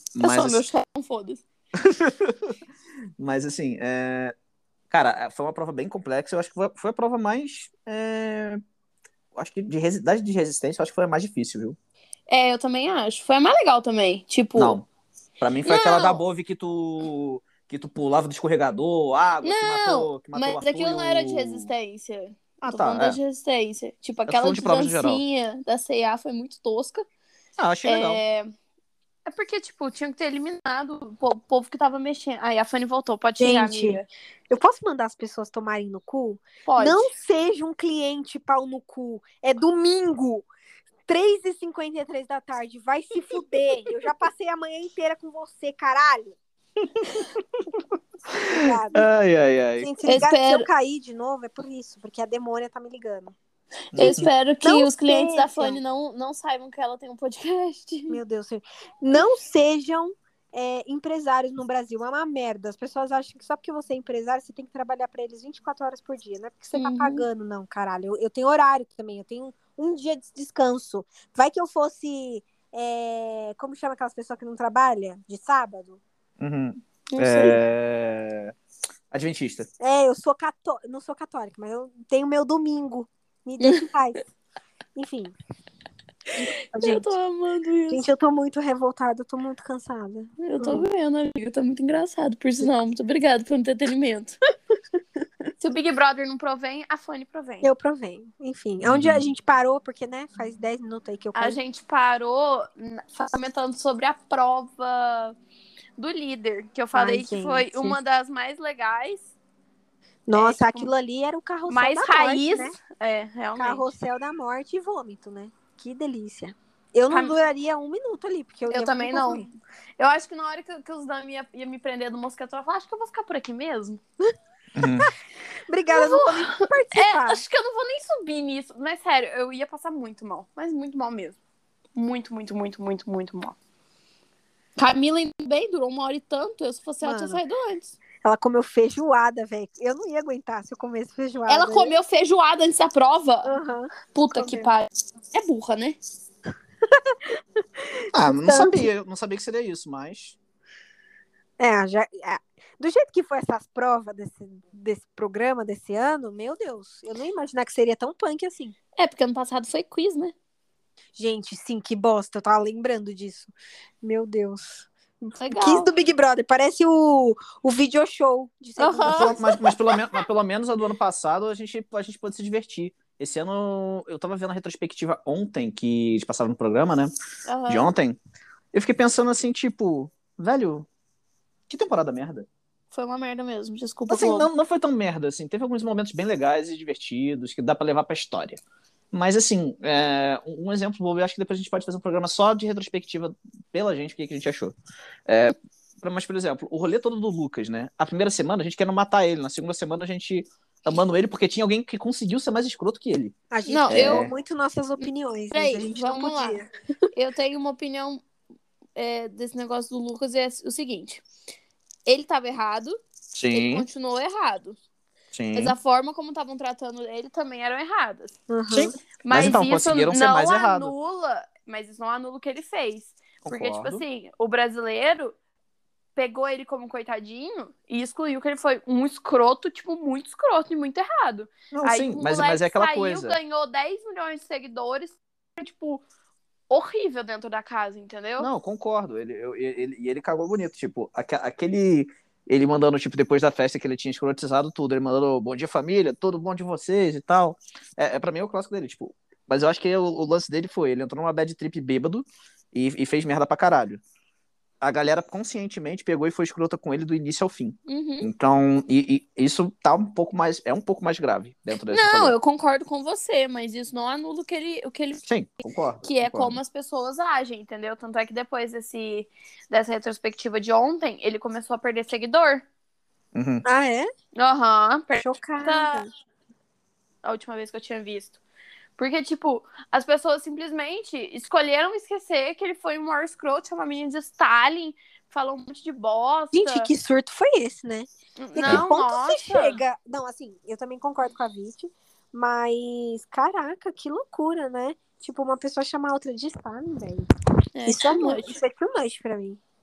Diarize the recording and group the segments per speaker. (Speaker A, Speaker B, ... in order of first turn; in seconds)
Speaker A: 0.1-0.6, 1.8-2.5, 3.2-4.3, 4.9-8.6, 9.3-11.8, 14.6-14.9, 15.4-21.7, 22.6-23.2, 24.3-25.2, 27.6-28.2, 46.8-47.4, 48.3-50.0, 53.9-54.3, 76.4-78.5, 79.1-79.7, 98.8-99.2, 124.7-125.1, 148.1-150.4, 169.0-177.1, 177.7-178.2, 178.7-180.9, 181.7-182.5, 184.1-188.6, 189.1-194.7, 195.3-203.3, 203.9-204.3, 213.3-213.8, 215.3-215.8, 219.3-220.9, 223.4-224.0, 231.7-233.4, 238.4-254.0, 254.8-262.3, 265.2-266.6, 273.3-273.6
Speaker B: 0.2-1.4, 12.3-14.8, 15.7-16.2, 19.4-27.0, 27.8-28.5, 29.2-34.1, 36.6-37.1, 50.0-50.7, 53.9-58.2, 66.7-67.2, 77.1-77.6, 86.4-88.0, 90.4-94.3, 95.6-97.7, 101.3-105.3, 106.0-109.3, 110.3-110.9, 111.7-113.8, 117.1-117.3, 118.7-124.0, 125.9-131.4, 131.9-133.6, 134.8-137.9, 141.5-143.6, 144.1-146.0, 158.9-160.3, 165.4-165.9, 168.8-169.4, 177.4-177.9, 182.9-184.5, 203.7-204.3, 205.0-206.6, 207.1-208.2, 208.9-211.2, 212.1-213.0, 213.5-214.8, 215.5-225.3, 226.2-236.0, 236.7-238.5, 257.9-258.3, 261.9-265.2, 266.0-272.6, 274.4-276.0, 277.2-278.4, 279.0-286.9, 288.4-289.8, 297.7-298.6
Speaker C: 33.4-40.5, 41.1-46.4, 48.5-49.0, 49.8-53.4, 54.0-55.8, 58.1-76.0, 79.8-84.2, 84.9-85.3, 86.3-87.1, 87.9-90.9, 97.6-101.6, 106.9-108.0, 110.3-112.8, 113.6-119.5, 125.7-127.4, 137.0-137.4, 138.2-141.9, 143.4-144.7, 146.9-147.4, 147.9-148.9, 151.6-158.7, 161.2-169.6, 203.5-206.7, 218.5-218.9, 273.6-274.1, 275.2-276.1, 286.5-297.3, 297.9-299.6